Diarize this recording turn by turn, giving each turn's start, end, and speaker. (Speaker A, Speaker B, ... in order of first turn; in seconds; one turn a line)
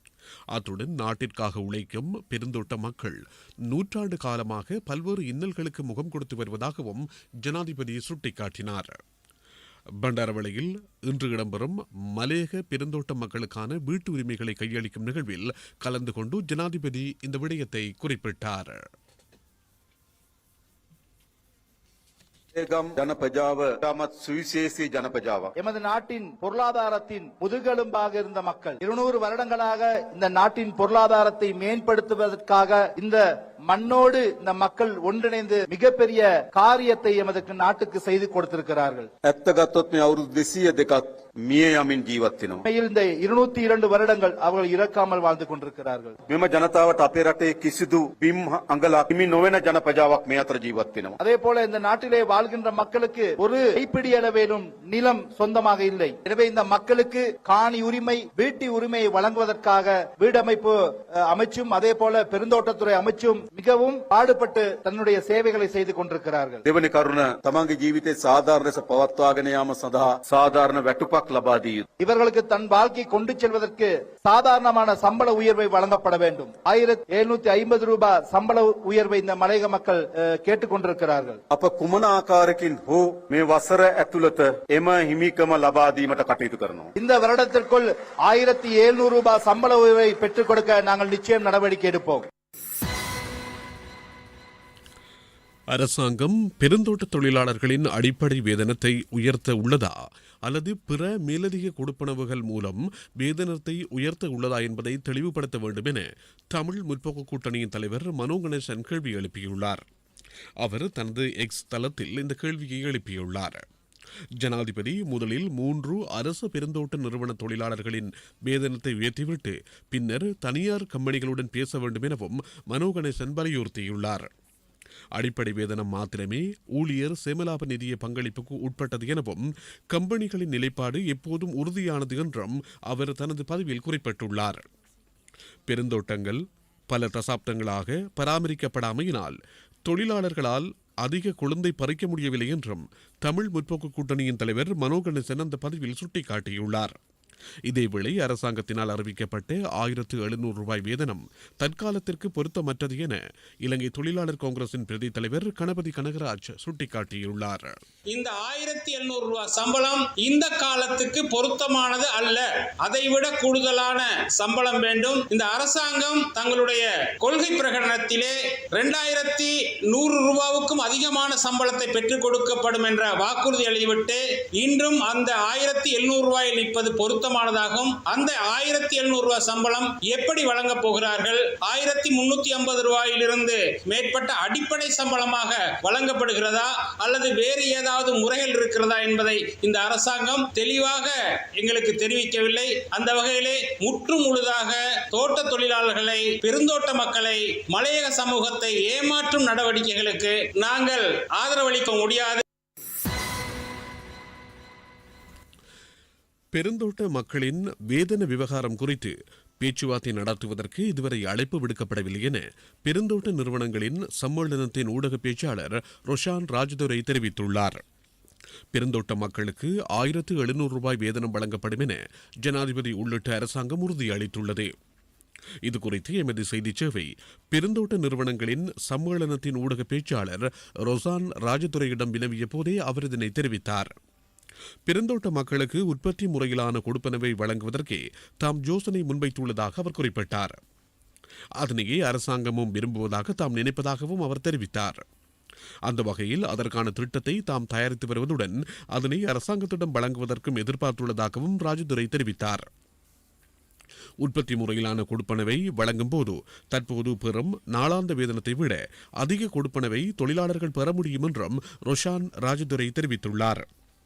Speaker A: 0.5-9.0
Speaker A: 10.0-18.8
Speaker B: 22.6-25.4
Speaker C: 25.6-39.1
Speaker B: 39.2-42.6
Speaker C: 42.6-46.2
Speaker B: 46.3-51.1
Speaker C: 51.2-66.6
Speaker B: 66.7-71.8
Speaker C: 72.0-81.4
Speaker B: 81.5-86.9
Speaker C: 87.0-92.3
Speaker A: 95.7-109.8
Speaker A: 110.6-113.6
Speaker A: 114.4-124.3
Speaker A: 125.1-134.7
Speaker A: 135.7-146.9
Speaker A: 147.7-157.7
Speaker D: 158.1-202.4
Speaker A: 206.5-217.8
Speaker A: 218.7-224.7
Speaker A: 225.6-233.9
Speaker A: 234.9-240.6
Speaker A: 241.6-245.0
Speaker A: 245.8-252.7
Speaker A: 254.2-263.6